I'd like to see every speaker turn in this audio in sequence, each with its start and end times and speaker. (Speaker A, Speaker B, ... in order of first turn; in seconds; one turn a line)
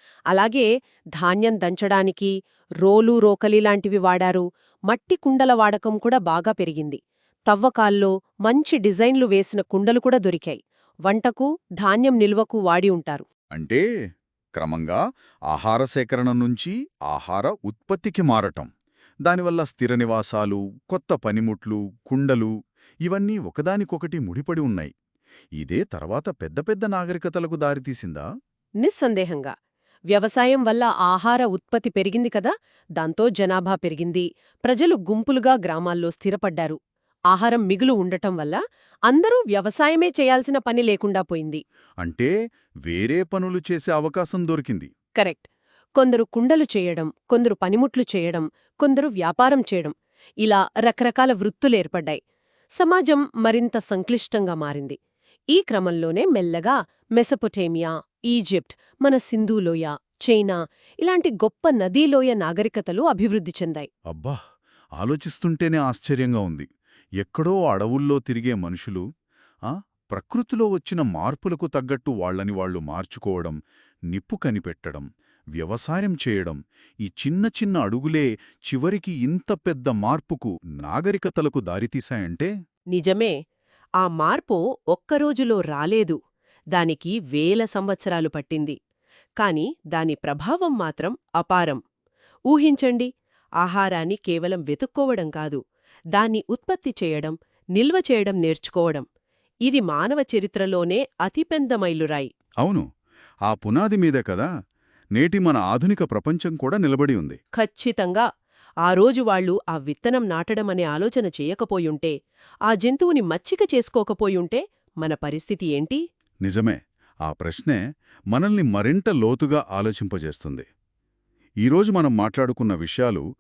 Speaker A: 0.3-2.3
Speaker A: 2.8-13.3
Speaker B: 13.5-13.8
Speaker B: 14.6-18.7
Speaker B: 19.2-22.5
Speaker B: 23.0-24.9
Speaker B: 25.6-28.3
Speaker A: 28.8-29.5
Speaker A: 30.1-36.8
Speaker A: 37.3-41.6
Speaker B: 42.0-42.3
Speaker B: 42.9-44.9
Speaker A: 45.2-52.2
Speaker A: 52.8-55.0
Speaker A: 55.5-63.9
Speaker B: 64.1-64.4
Speaker B: 65.0-66.7
Speaker B: 67.2-69.0
Speaker B: 69.7-73.6
Speaker B: 74.1-75.1
Speaker B: 75.6-82.5
Speaker A: 82.9-83.3
Speaker A: 84.0-86.2
Speaker A: 86.7-88.8
Speaker A: 89.4-91.8
Speaker A: 92.5-93.1
Speaker A: 93.6-95.6
Speaker A: 96.1-99.1
Speaker A: 99.7-102.3
Speaker B: 103.5-104.5
Speaker B: 105.2-107.4
Speaker A: 107.6-108.3
Speaker A: 108.8-112.1
Speaker A: 112.7-116.0
Speaker B: 116.5-117.8
Speaker B: 118.3-120.7
Speaker B: 121.7-123.2